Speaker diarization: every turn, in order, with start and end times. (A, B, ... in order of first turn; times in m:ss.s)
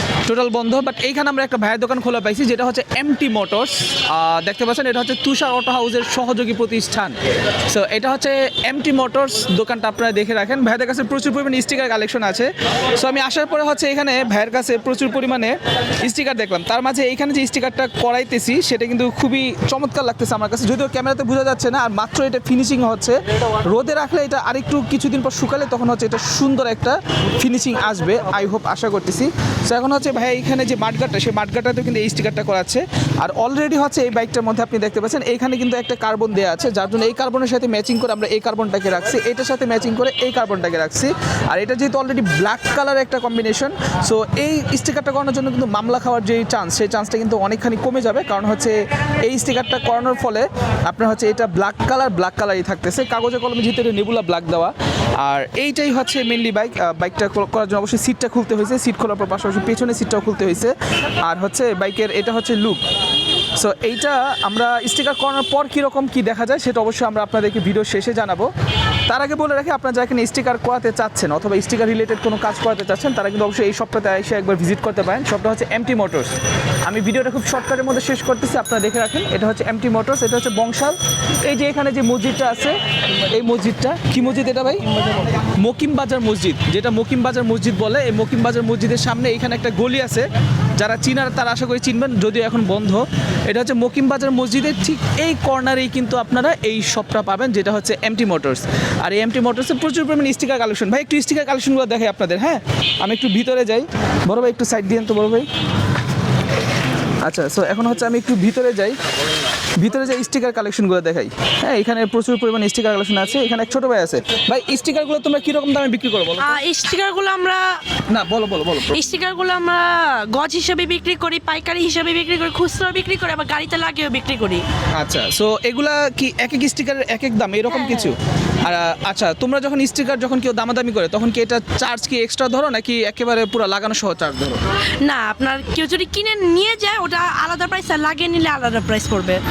0:00.2-0:07.2 A
0:07.7-1:02.8 A
1:03.6-1:08.5 A
1:09.1-1:16.4 A
1:16.9-1:22.8 A
1:23.3-1:24.8 A
1:25.4-1:30.3 A
1:30.8-1:45.5 A
1:47.2-1:49.0 A
1:49.8-1:56.6 A
1:56.4-1:57.8 B
1:58.1-1:59.0 A
1:58.9-2:04.6 B
2:05.0-2:14.6 A
2:07.7-2:08.1 B
2:15.0-2:19.4 B